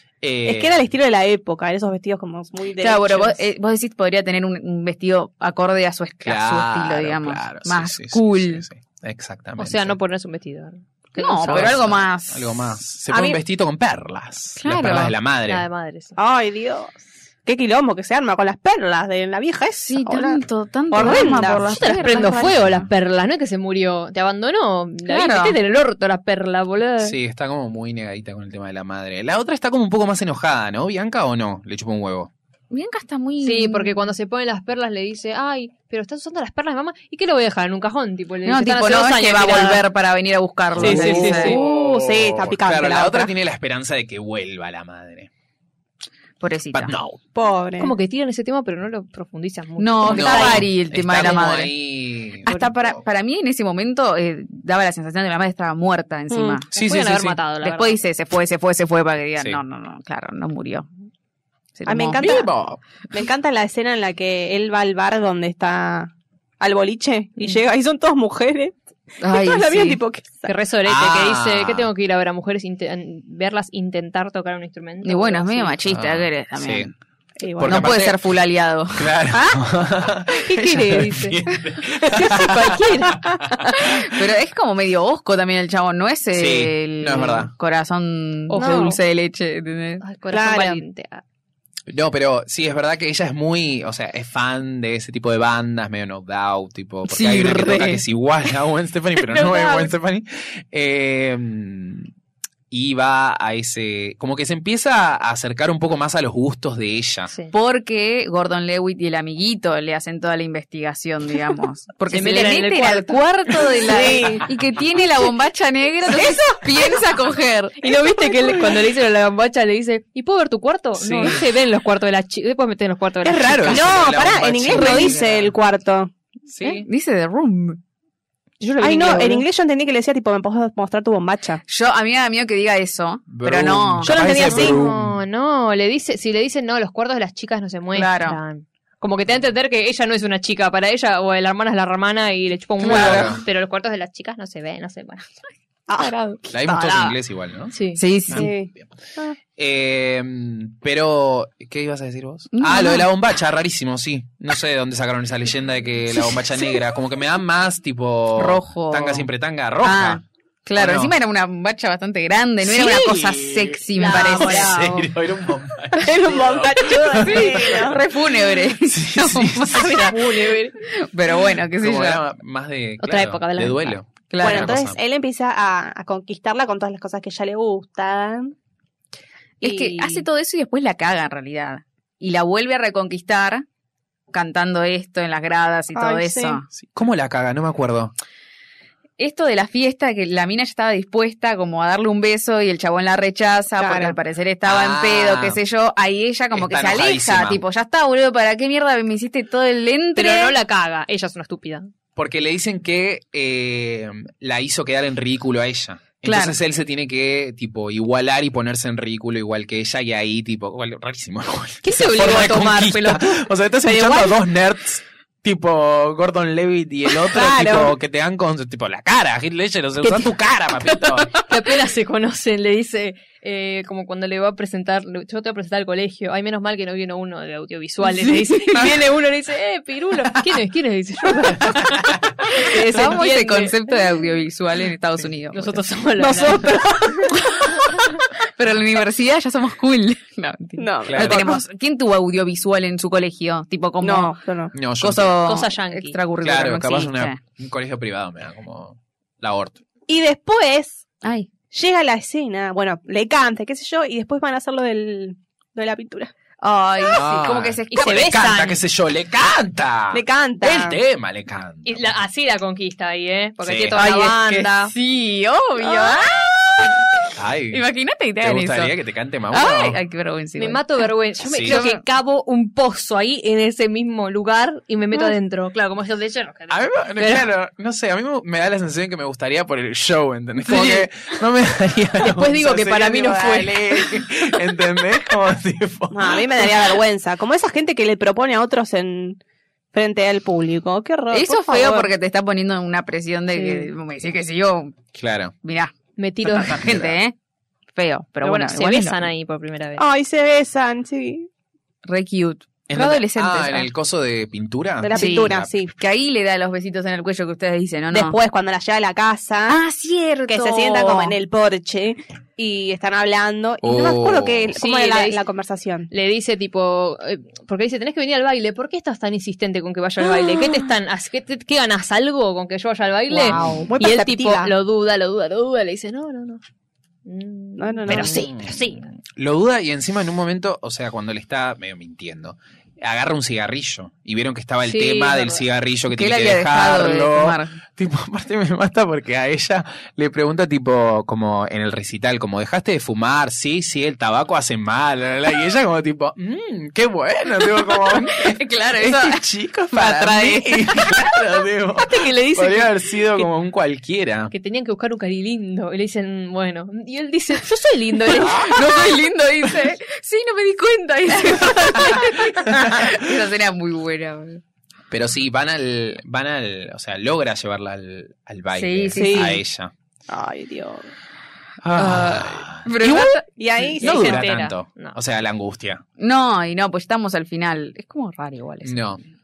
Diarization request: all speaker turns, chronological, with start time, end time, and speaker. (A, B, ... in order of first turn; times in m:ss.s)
0:00.2-0:00.8 A
0:00.4-0:03.4 B
0:02.8-0:08.6 C
0:06.2-0:10.0 A
0:09.6-0:11.8 D
0:11.2-0:12.6 C
0:11.5-0:15.6 A
0:13.1-0:13.4 B
0:14.6-0:15.1 C
0:15.5-0:16.2 D
0:16.2-0:21.7 B
0:19.8-0:22.6 C
0:20.9-0:27.2 D
0:22.2-0:22.9 A
0:25.0-0:25.6 C
0:27.0-0:32.3 A
0:32.7-0:34.0 C
0:33.4-0:39.8 D
0:38.4-0:41.6 C
0:40.7-0:45.3 A
0:40.8-0:41.6 D
0:40.9-0:43.3 B
0:46.4-0:46.9 C
0:46.7-0:47.2 A
0:47.3-0:47.9 B
0:47.8-0:50.7 D
0:49.8-0:51.7 C
0:50.0-0:53.0 A
0:51.2-0:51.5 D
0:52.4-0:56.7 C
0:52.5-0:52.7 D
0:56.3-0:56.6 B
0:56.7-0:57.4 A
0:56.7-0:58.0 D
0:57.6-1:00.9 C
1:01.8-1:02.4 C
1:01.8-1:02.5 B
1:02.2-1:02.8 A
1:03.1-1:10.5 B
1:09.2-1:10.0 C
1:10.4-1:15.8 D
1:10.8-1:11.9 A
1:15.0-1:16.9 C
1:15.9-1:16.9 A
1:17.4-1:17.9 B
1:17.6-1:18.2 A
1:17.6-1:19.6 C
1:18.9-1:23.7 A
1:20.4-1:21.4 D
1:22.0-1:23.7 D
1:23.7-1:30.0 C
1:26.3-1:27.5 A
1:28.5-1:29.0 D
1:30.0-1:31.2 D
1:30.3-1:30.8 B
1:31.9-1:42.1 A
1:37.1-1:38.0 C
1:39.3-1:39.9 D
1:42.7-1:47.3 A
1:47.5-1:58.0 C
1:52.1-1:54.3 D
1:53.8-1:54.4 B
1:56.1-1:56.5 B
1:57.8-2:03.9 D
2:01.0-2:01.4 A
2:03.2-2:05.5 A
2:03.6-2:06.1 B
2:04.7-2:05.4 C
2:06.5-2:06.8 A
2:06.6-2:07.8 C
2:08.6-2:09.4 D
2:08.8-2:11.6 B
2:11.7-2:14.1 C
2:13.3-2:15.2 A
2:14.0-2:14.8 B
2:14.3-2:25.3 D
2:17.9-2:18.4 C
2:22.8-2:23.4 C
2:22.8-2:23.4 A
2:25.9-2:27.2 B
2:26.5-2:27.7 A
2:27.7-2:28.0 D
2:27.9-2:28.5 C
2:28.3-2:28.9 A
2:28.3-2:29.3 B
2:29.5-2:40.2 A
2:32.5-2:33.1 C
2:38.4-2:39.3 C
2:39.8-2:44.8 C
2:40.8-2:41.1 A
2:42.6-2:47.9 A
2:43.9-2:45.1 D
2:46.0-2:48.0 B
2:47.2-2:50.4 C
2:48.8-2:50.1 A
2:49.7-2:50.7 D
2:50.0-2:50.7 B
2:50.9-2:52.2 C
2:51.7-2:55.0 A
2:53.0-2:54.0 D
2:54.3-2:54.8 C
2:54.4-2:58.5 B
2:59.6-3:00.2 B
2:59.6-3:03.6 C
3:04.3-3:06.7 C
3:05.9-3:06.6 B
3:06.7-3:08.1 A
3:09.2-3:20.6 C
3:13.8-3:14.2 B
3:14.6-3:15.6 A
3:16.5-3:17.6 A
3:20.2-3:21.9 D
3:22.2-3:41.4 A
3:26.2-3:26.5 C
3:31.8-3:33.4 D
3:33.8-3:34.4 B
3:37.3-3:37.9 B
3:41.3-3:53.8 D
3:48.0-3:49.0 C
3:52.5-4:04.4 C
3:55.5-3:57.3 D
3:56.3-3:57.3 B
4:00.8-4:01.6 B
4:01.0-4:01.4 A
4:04.0-4:04.7 B
4:04.7-4:05.4 A
4:05.0-4:07.4 C
4:05.4-4:06.2 D
4:06.4-4:09.8 A
4:10.1-4:11.1 B
4:11.2-4:11.5 C
4:11.7-4:16.3 B
4:16.6-4:18.2 C
4:17.1-4:22.2 A
4:17.9-4:18.8 D
4:20.1-4:21.0 B
4:21.8-4:24.9 D
4:23.6-4:24.0 A
4:24.0-4:24.7 B
4:24.8-4:27.0 C
4:25.8-4:26.4 B
4:27.3-4:27.9 A
4:27.7-4:28.9 C
4:28.4-4:30.0 A
4:29.5-4:30.8 C
4:30.6-4:37.5 D
4:31.4-4:31.8 A
4:31.6-4:32.0 C
4:36.7-4:46.8 A
4:40.7-4:41.0 C
4:40.7-4:40.9 D
4:42.2-4:44.1 D
4:46.1-4:49.4 B
4:49.9-4:52.1 B
4:51.3-4:55.0 C
4:53.5-4:53.9 D
4:55.1-4:55.5 A
4:55.6-4:55.9 C
4:56.2-4:56.9 D
4:56.4-4:57.4 C
4:56.7-4:57.1 A
4:57.9-4:59.2 C
4:58.4-5:00.0 D
5:00.0-5:01.5 B
5:02.0-5:03.9 C
5:02.9-5:05.7 A
5:05.0-5:05.9 B
5:05.1-5:08.4 C
5:08.1-5:09.8 B
5:09.7-5:11.4 C
5:10.5-5:16.1 B
5:13.8-5:14.8 A
5:14.8-5:15.4 D
5:16.1-5:26.6 D
5:23.3-5:24.7 B
5:23.5-5:23.9 A
5:27.2-5:29.1 D
5:27.8-5:28.5 B
5:28.1-5:54.5 A
5:34.8-5:35.6 D
5:36.1-5:37.8 C
5:47.6-5:51.4 C
5:52.0-5:53.5 D
5:54.5-5:59.1 D
5:58.3-6:04.6 C
5:58.4-5:58.9 A
6:01.4-6:02.3 D
6:02.7-6:03.2 A
6:05.1-6:09.9 A
6:08.7-6:09.6 C
6:09.2-6:09.6 B
6:10.3-6:11.1 B
6:11.8-6:16.0 A
6:11.9-6:13.4 C
6:13.6-6:14.4 B
6:14.0-6:15.2 D
6:14.3-6:14.7 C
6:16.2-6:19.0 C
6:18.8-6:19.2 A